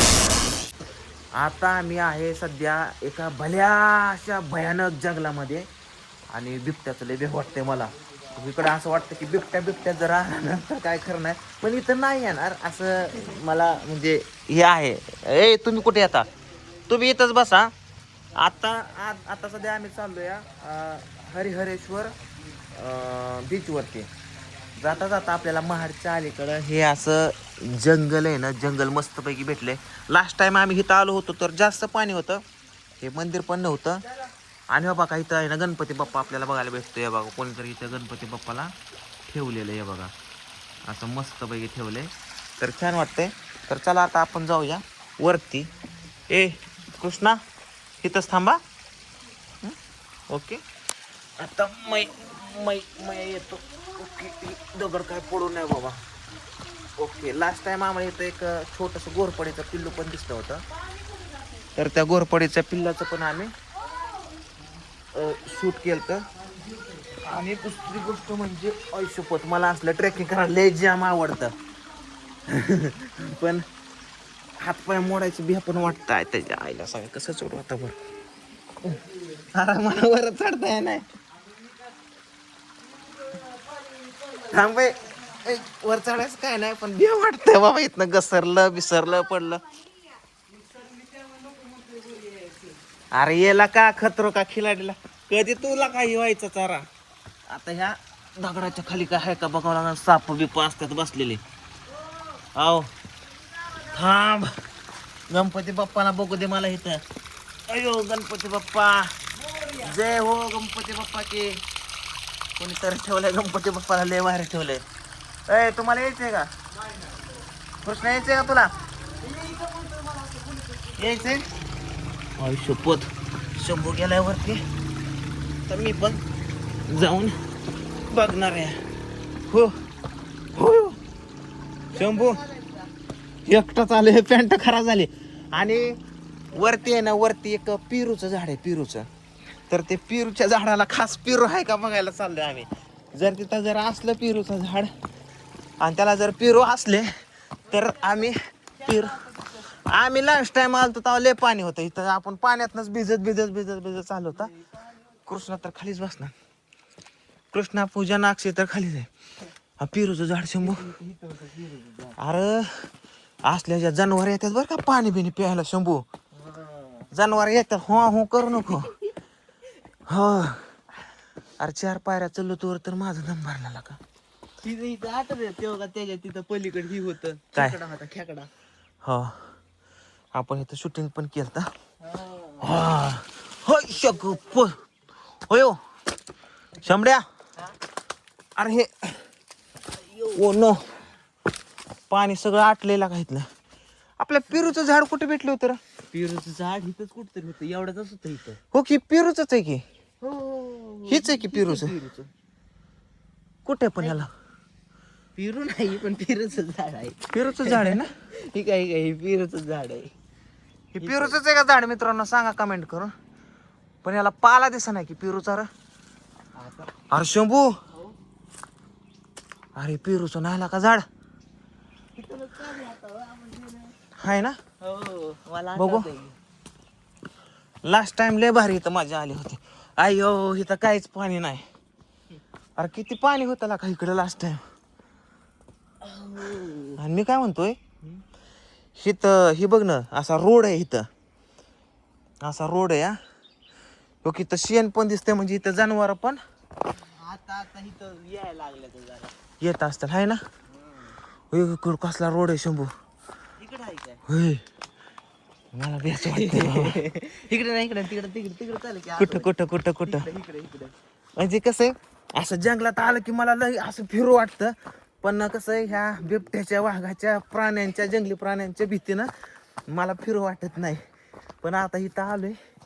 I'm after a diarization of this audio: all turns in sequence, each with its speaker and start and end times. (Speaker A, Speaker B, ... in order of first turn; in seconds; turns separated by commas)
Speaker A: 1.4-5.7, Speaker A: 6.3-16.3, Speaker A: 16.9-17.7, Speaker A: 18.3-22.1, Speaker A: 22.7-24.1, Speaker A: 24.8-32.4, Speaker A: 33.0-34.0, Speaker A: 34.7-38.7, Speaker A: 39.3-40.1, Speaker A: 40.8-45.7, Speaker A: 46.3-47.4, Speaker A: 48.0-48.6, Speaker A: 50.3-50.6, Speaker A: 51.4-56.0, Speaker A: 57.0-60.6, Speaker A: 61.7-63.5, Speaker A: 65.1-66.2, Speaker A: 67.2-71.5, Speaker A: 72.5-73.6, Speaker A: 74.6-78.0, Speaker A: 79.5-81.0, Speaker B: 83.2-84.2, Speaker A: 84.3-89.7, Speaker B: 90.6-92.7, Speaker A: 93.1-96.9, Speaker A: 97.5-101.4, Speaker A: 102.5-102.9, Speaker A: 103.8-104.5, Speaker A: 105.3-107.0, Speaker A: 107.7-109.1, Speaker A: 109.8-111.6, Speaker A: 112.6-114.8, Speaker A: 115.5-116.5, Speaker B: 117.0-117.2, Speaker A: 117.8-118.7, Speaker B: 119.2-121.0, Speaker A: 121.0-121.5, Speaker A: 122.4-124.6, Speaker A: 125.7-126.2, Speaker A: 126.9-127.3, Speaker A: 128.1-128.8, Speaker A: 130.5-131.0, Speaker B: 131.9-132.9, Speaker A: 131.9-132.4, Speaker A: 133.4-135.9, Speaker A: 136.5-139.1, Speaker A: 139.7-144.9, Speaker A: 145.8-147.1, Speaker A: 147.7-149.2, Speaker B: 148.8-149.6, Speaker A: 149.7-154.5, Speaker B: 154.3-155.1, Speaker A: 155.3-156.3, Speaker A: 157.5-159.1, Speaker A: 159.8-160.9, Speaker B: 160.6-162.2, Speaker A: 162.2-162.9, Speaker A: 163.5-166.0, Speaker B: 166.3-167.1, Speaker A: 167.1-168.9, Speaker A: 170.1-170.6, Speaker A: 171.6-174.0, Speaker B: 174.6-178.5, Speaker A: 179.0-179.5, Speaker A: 180.3-181.7, Speaker B: 182.0-182.9, Speaker A: 182.6-184.7, Speaker A: 185.5-185.8, Speaker A: 186.8-187.2, Speaker A: 188.6-189.2, Speaker B: 189.9-190.5, Speaker A: 190.3-190.8, Speaker A: 192.1-193.5, Speaker A: 194.2-195.8, Speaker B: 196.1-198.6, Speaker A: 198.7-199.8, Speaker B: 200.2-202.3, Speaker A: 201.1-201.9, Speaker A: 203.6-204.3, Speaker B: 204.0-204.3, Speaker B: 205.4-210.1, Speaker A: 207.3-208.1, Speaker A: 210.9-213.1, Speaker B: 211.0-211.4, Speaker A: 214.0-215.7, Speaker B: 216.6-216.9, Speaker A: 217.1-217.7, Speaker A: 219.8-221.0, Speaker B: 222.2-223.9, Speaker A: 224.2-224.6, Speaker B: 224.8-226.3, Speaker A: 225.7-226.1, Speaker A: 227.8-231.6, Speaker A: 232.8-234.6, Speaker B: 236.0-237.0, Speaker A: 237.0-237.8, Speaker A: 239.0-241.1, Speaker A: 242.4-243.2, Speaker A: 244.2-246.4, Speaker B: 247.1-249.3, Speaker A: 249.6-250.4, Speaker B: 250.7-251.2, Speaker A: 251.5-252.9, Speaker B: 253.6-254.2, Speaker A: 254.3-254.6, Speaker A: 255.7-257.0, Speaker B: 256.2-259.5, Speaker A: 259.2-260.3, Speaker B: 260.0-260.9, Speaker A: 261.4-269.3, Speaker A: 269.9-271.0, Speaker A: 271.6-272.5